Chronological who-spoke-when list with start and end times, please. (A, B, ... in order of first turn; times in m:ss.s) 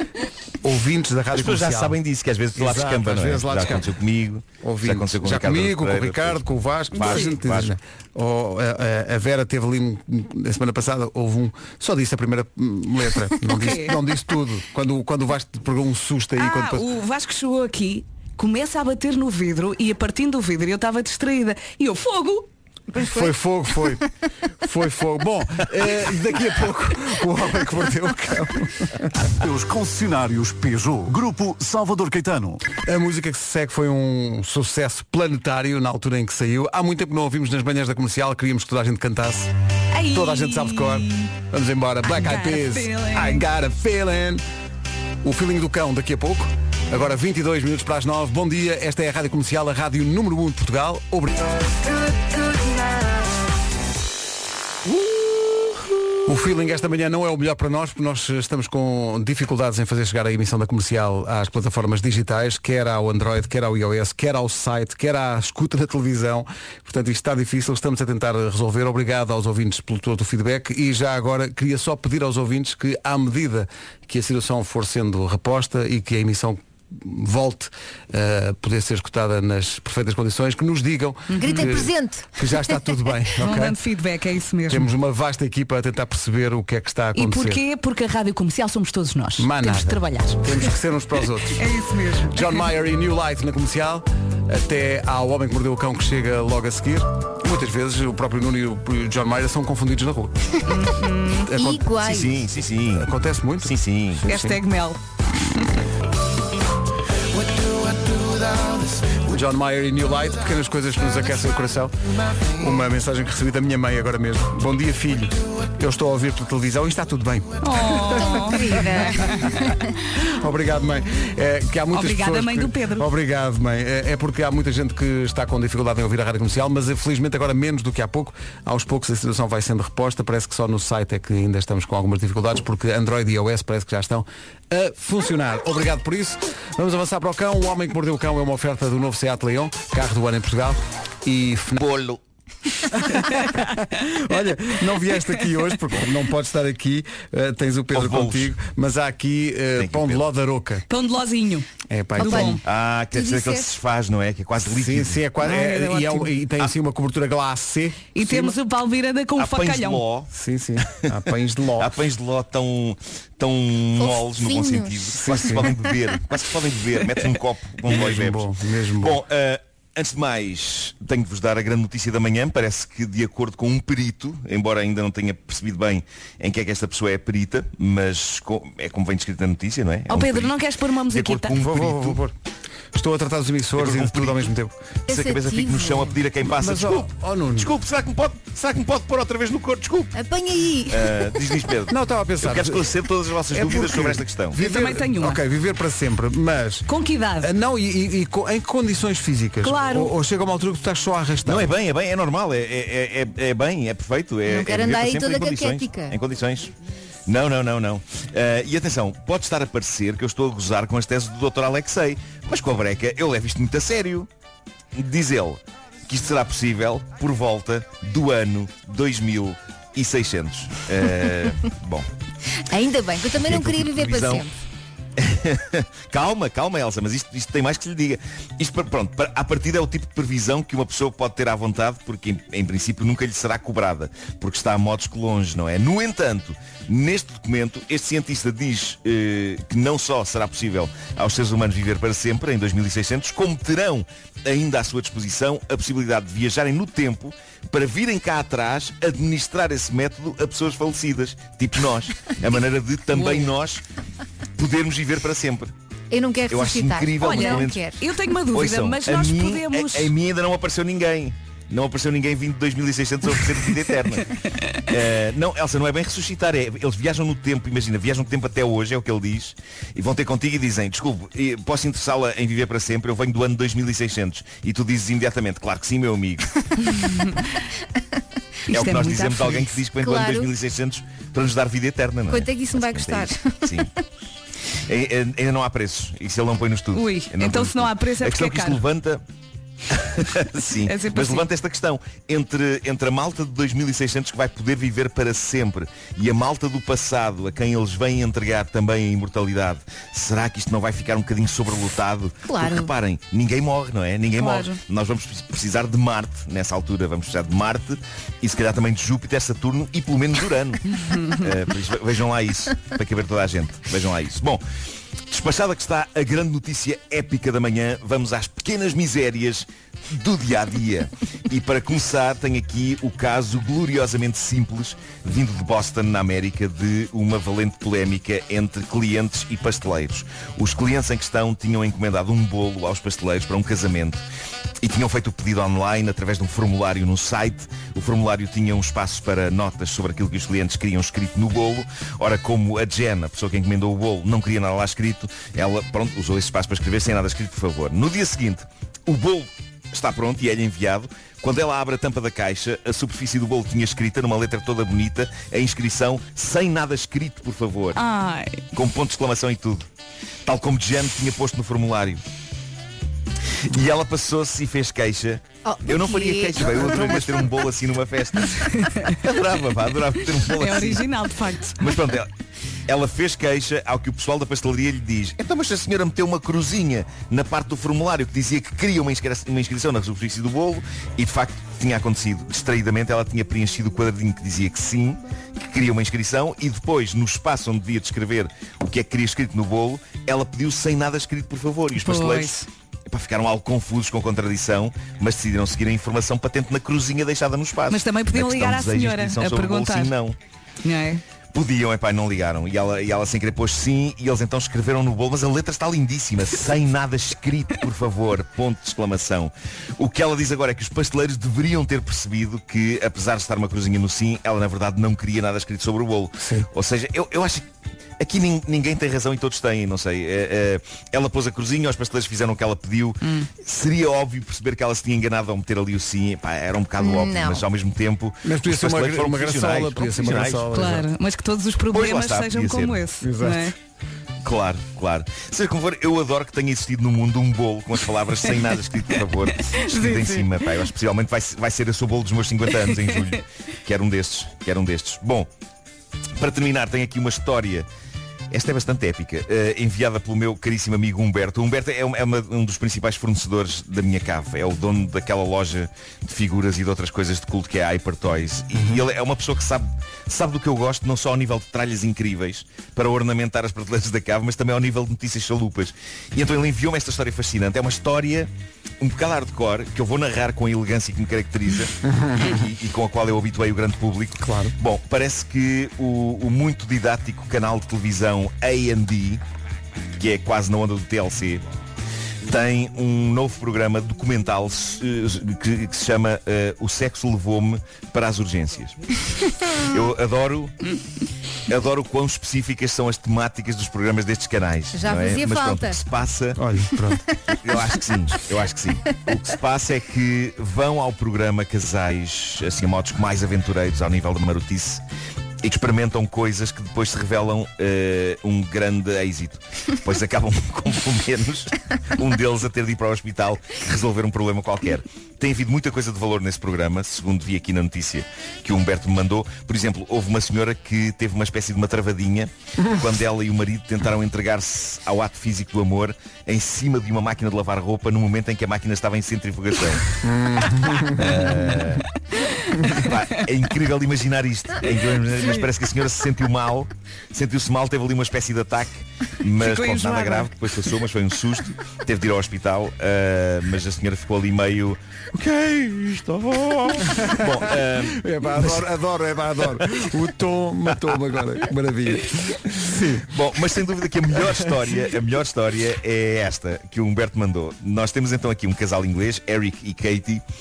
0:00.6-0:02.0 A
0:01.3-0:07.8 B
0:02.5-0:03.9 A
0:04.6-0:16.8 A
0:06.9-0:07.3 C
0:13.4-0:14.0 C
0:16.4-0:22.5 C
0:23.0-0:24.0 A
0:24.6-0:29.0 A
0:29.4-0:32.6 D
0:32.7-0:39.5 A
0:39.9-0:41.3 C
0:40.1-0:44.4 A
0:42.0-0:43.4 C
0:45.2-0:51.4 A
0:56.2-1:23.8 A
1:21.3-1:21.7 C
1:21.4-1:22.3 E
1:23.4-1:24.9 C
1:24.7-1:27.6 A
1:27.1-1:30.6 C
1:29.4-1:31.6 A
1:31.5-1:32.5 C
1:32.3-1:40.3 A
1:40.6-1:41.5 C
1:41.4-1:41.9 A
1:41.5-1:42.5 E
1:42.0-1:44.2 B
1:42.9-1:44.6 A
1:44.2-1:45.0 C
1:49.2-1:51.9 A
1:52.6-1:58.6 A
1:57.6-1:59.4 C
1:58.2-1:59.8 E
2:00.3-2:21.8 A
2:01.9-2:03.1 C
2:21.8-2:22.2 B
2:22.9-2:30.8 A
2:27.9-2:28.5 B
2:29.8-2:30.2 B
2:30.9-2:32.6 C
2:31.9-2:32.6 A
2:32.2-2:33.8 E
2:32.6-2:35.2 B
2:34.7-2:38.5 A
2:35.4-2:36.3 C
2:38.1-2:40.0 C
2:39.4-2:40.3 B
2:40.3-2:42.0 A
2:41.8-3:00.6 B
2:44.0-2:45.7 E
2:45.2-2:45.7 A
2:47.8-2:49.2 A
3:00.1-3:01.6 C
3:01.1-3:02.2 B
3:01.6-3:02.3 A
3:02.9-3:04.7 A
3:03.8-3:04.4 B
3:05.1-3:06.2 E
3:05.1-3:10.1 B
3:06.5-3:07.7 A
3:10.1-3:11.6 E
3:10.9-3:14.6 B
3:11.9-3:12.9 A
3:13.5-3:16.9 A
3:14.6-3:15.4 C
3:16.9-3:17.5 C
3:17.4-3:21.7 A
3:19.6-3:20.1 C
3:21.4-3:26.7 B
3:24.4-3:26.2 E
3:27.2-3:34.3 B
3:34.9-3:42.1 B
3:42.7-3:44.5 E
3:43.4-3:44.4 B
3:45.2-4:13.8 B
4:13.1-4:13.5 C
4:14.6-4:15.7 B
4:16.1-4:18.0 E
4:16.5-4:17.9 B
4:17.2-4:20.1 C
4:18.5-4:24.3 B
4:24.9-4:36.5 B
4:37.0-4:37.3 C
4:38.7-4:39.8 C
4:38.7-4:43.9 B
4:40.0-4:40.5 E
4:42.3-4:43.9 E
4:44.9-4:49.2 B
4:46.9-4:48.8 C
4:49.9-5:14.6 B
4:50.8-4:51.5 C
5:02.4-5:02.9 E
5:04.4-5:04.8 C
5:15.3-5:34.2 B
5:34.8-5:58.0 B
5:57.9-5:58.6 C
5:58.7-5:59.8 B
6:00.4-6:02.2 B
6:03.7-6:11.1 B
6:05.6-6:07.7 E
6:10.4-6:11.8 C
6:11.8-6:12.3 B
6:12.9-6:40.4 B
6:32.0-6:32.7 C
6:37.9-6:40.1 C
6:40.8-6:41.2 C
6:41.5-6:57.6 B
6:56.4-6:56.7 A
6:58.2-7:10.7 B
7:03.2-7:03.5 C
7:07.0-7:07.6 E
7:08.4-7:11.1 A
7:10.7-7:13.7 C
7:11.9-7:13.0 B
7:13.2-7:13.7 A
7:14.4-7:25.5 B
7:19.6-7:20.8 C
7:26.4-7:27.9 B
7:28.5-7:59.4 B
7:52.0-7:52.6 A
7:54.4-7:54.7 A
8:00.2-8:01.6 B
8:02.4-8:09.1 B
8:09.8-8:10.7 B
8:11.7-8:16.6 B
8:14.9-8:16.0 E
8:16.6-8:17.2 A
8:17.5-8:25.0 B
8:17.7-8:18.0 E
8:25.6-8:50.0 B
8:50.2-8:51.8 A
8:51.2-8:52.0 B
8:52.9-9:08.8 B
8:59.6-9:00.9 C
9:07.1-9:13.3 A
9:13.2-9:20.4 B